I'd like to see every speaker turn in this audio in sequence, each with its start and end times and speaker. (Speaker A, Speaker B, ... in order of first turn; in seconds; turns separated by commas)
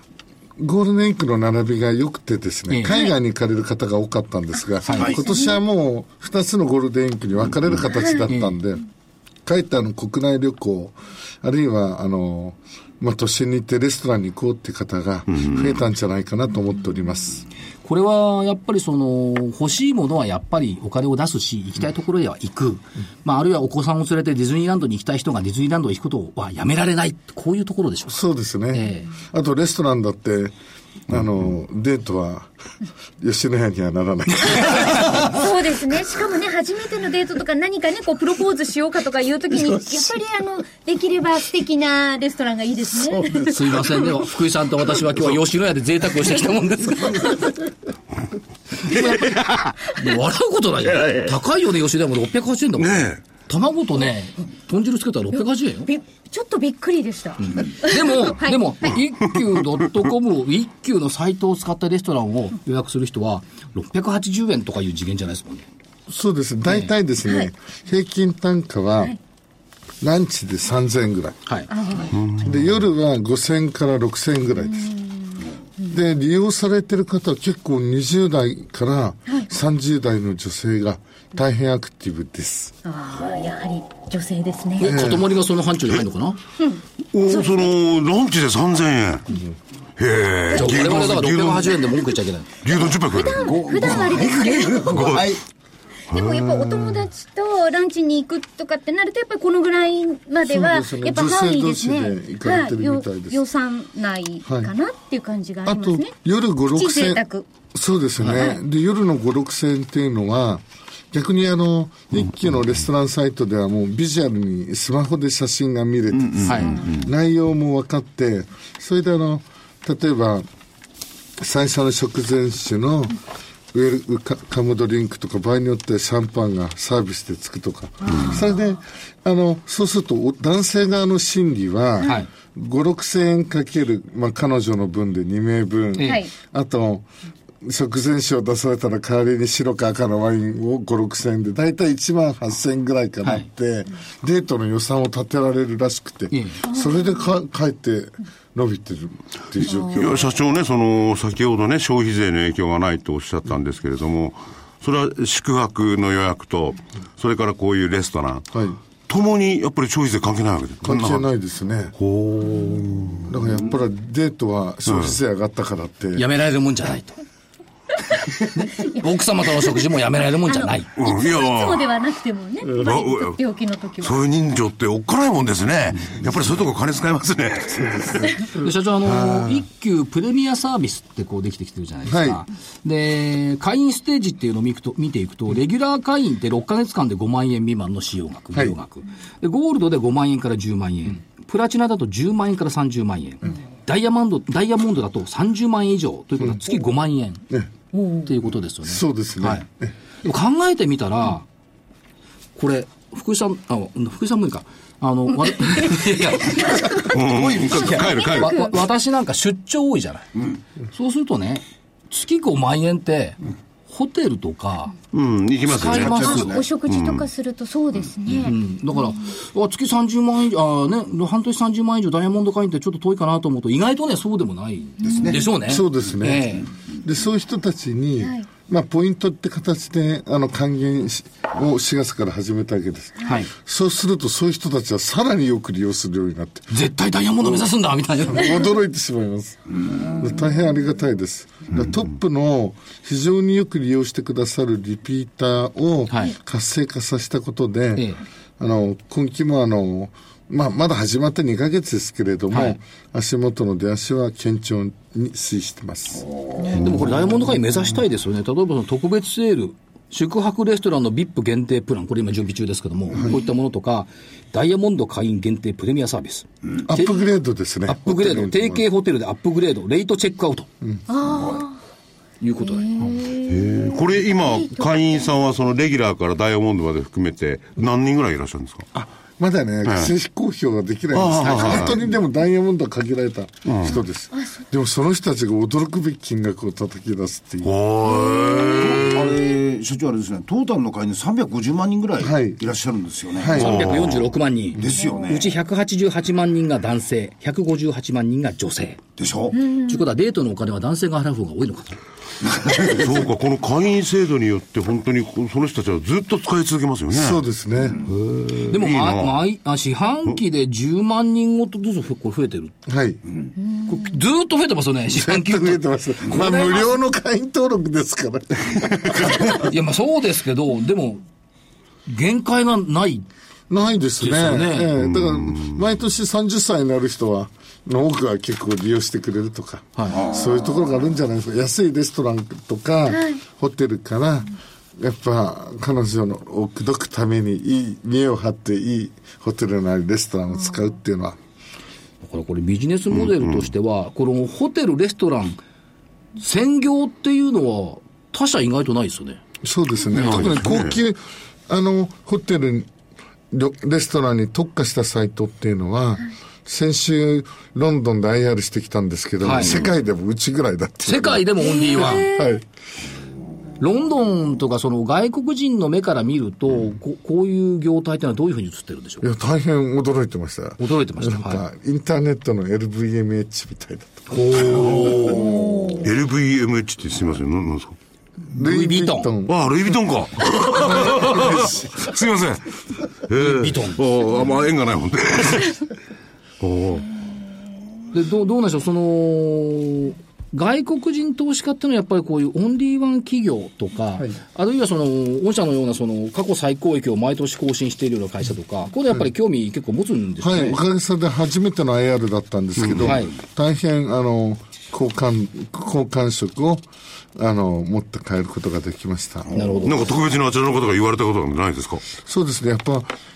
Speaker A: 0.6-8.8, Speaker B: 2.7-3.1, Speaker B: 4.8-5.2, Speaker C: 5.0-5.3, Speaker B: 8.3-8.6, Speaker A: 9.5-17.5, Speaker B: 17.8-28.2, Speaker A: 28.1-30.5, Speaker B: 28.7-29.1, Speaker A: 31.1-32.5, Speaker A: 33.2-35.3, Speaker B: 34.5-35.3, Speaker D: 35.2-44.1, Speaker B: 43.4-47.5, Speaker B: 48.8-55.9, Speaker E: 49.0-49.6, Speaker E: 51.0-51.3, Speaker E: 52.8-53.2, Speaker D: 55.9-58.7, Speaker B: 57.4-65.7, Speaker A: 66.1-69.2, Speaker A: 70.0-71.5, Speaker B: 71.5-71.7, Speaker D: 71.7-72.2, Speaker E: 72.1-72.5, Speaker A: 72.4-74.9, Speaker D: 74.8-75.9, Speaker A: 75.9-82.7, Speaker D: 82.8-85.0, Speaker B: 84.8-86.4, Speaker A: 84.8-85.3, Speaker D: 86.6-87.6, Speaker E: 87.1-89.3, Speaker E: 90.0-91.8, Speaker B: 90.5-92.5, Speaker E: 92.6-93.5, Speaker D: 93.1-95.2, Speaker C: 93.4-95.4, Speaker E: 94.9-95.3, Speaker D: 96.1-106.1, Speaker E: 96.1-96.7, Speaker A: 100.4-103.4, Speaker A: 104.5-104.7, Speaker A: 105.7-120.5, Speaker D: 106.7-107.5, Speaker D: 108.3-108.6, Speaker E: 116.1-117.1, Speaker B: 116.5-116.9, Speaker A: 121.4-123.2, Speaker A: 123.7-137.1, Speaker B: 132.0-132.3, Speaker B: 136.0-136.2, Speaker D: 136.0-136.3, Speaker A: 137.6-150.2, Speaker B: 146.3-146.6, Speaker D: 146.7-147.2, Speaker E: 149.9-158.5, Speaker A: 158.5-158.8, Speaker E: 159.1-161.2, Speaker A: 160.8-161.9, Speaker E: 162.0-163.3, Speaker A: 163.2-166.2, Speaker E: 164.9-165.1, Speaker B: 166.2-167.1, Speaker B: 168.4-171.0, Speaker D: 168.8-169.1, Speaker D: 170.4-174.2, Speaker E: 171.0-171.9, Speaker E: 172.7-173.4, Speaker E: 174.0-178.2, Speaker A: 177.9-179.6, Speaker B: 178.5-197.4, Speaker A: 182.1-182.4, Speaker D: 197.9-198.3, Speaker B: 198.2-199.6, Speaker A: 198.8-199.9, Speaker B: 200.2-201.5, Speaker B: 202.6-210.3, Speaker D: 206.5-207.0, Speaker E: 207.1-208.7, Speaker D: 208.0-208.6, Speaker B: 210.9-214.9, Speaker E: 215.1-217.3, Speaker B: 215.7-216.6, Speaker C: 215.8-216.7, Speaker D: 216.2-218.6, Speaker B: 218.3-226.7, Speaker C: 225.0-225.4, Speaker D: 225.0-225.4, Speaker A: 225.6-236.7, Speaker D: 228.2-228.5, Speaker B: 233.2-233.5, Speaker B: 236.7-238.6, Speaker A: 238.3-256.3, Speaker B: 246.1-246.3, Speaker B: 252.5-252.8, Speaker B: 256.7-267.1, Speaker A: 266.8-268.9, Speaker B: 267.9-270.7, Speaker D: 271.1-271.8, Speaker B: 272.4-273.1, Speaker D: 272.6-274.0, Speaker E: 273.4-278.9, Speaker A: 278.9-287.7, Speaker E: 281.1-282.0, Speaker B: 281.4-281.9, Speaker E: 283.6-284.0, Speaker E: 287.6-289.3, Speaker D: 288.2-288.9, Speaker C: 288.8-293.8, Speaker A: 292.2-292.6, Speaker A: 293.4-293.9, Speaker B: 293.5-299.0, Speaker E: 293.6-294.3, Speaker C: 294.7-295.5, Speaker C: 299.2-299.6, Speaker D: 299.6-300.0, Speaker B: 299.8-302.0, Speaker C: 302.4-303.0, Speaker E: 302.8-307.4, Speaker A: 307.1-308.1, Speaker E: 308.0-309.4, Speaker B: 308.7-312.8, Speaker A: 312.9-313.2, Speaker B: 313.9-316.9, Speaker A: 315.1-319.6, Speaker B: 319.5-321.2, Speaker B: 322.1-323.3, Speaker A: 323.7-341.4, Speaker B: 324.2-324.9, Speaker E: 325.0-325.8, Speaker B: 330.0-330.2, Speaker D: 333.1-333.4, Speaker B: 342.2-345.6, Speaker B: 346.4-349.4, Speaker A: 349.6-352.9, Speaker E: 350.1-351.0, Speaker A: 353.5-362.6, Speaker B: 359.4-359.9, Speaker B: 361.1-362.4, Speaker D: 361.6-362.5, Speaker B: 363.8-369.3, Speaker A: 369.2-375.8, Speaker B: 370.8-371.6, Speaker B: 374.3-375.6, Speaker D: 375.7-376.0, Speaker E: 376.0-378.0, Speaker A: 378.5-379.6, Speaker B: 378.6-379.3, Speaker E: 379.5-385.8, Speaker A: 381.5-381.8, Speaker B: 383.4-384.0, Speaker E: 386.6-387.1, Speaker B: 388.1-400.8, Speaker A: 400.4-406.9, Speaker E: 402.8-403.1, Speaker B: 403.0-403.3, Speaker A: 407.4-409.6, Speaker B: 409.5-410.1, Speaker E: 409.8-412.1, Speaker A: 412.1-413.1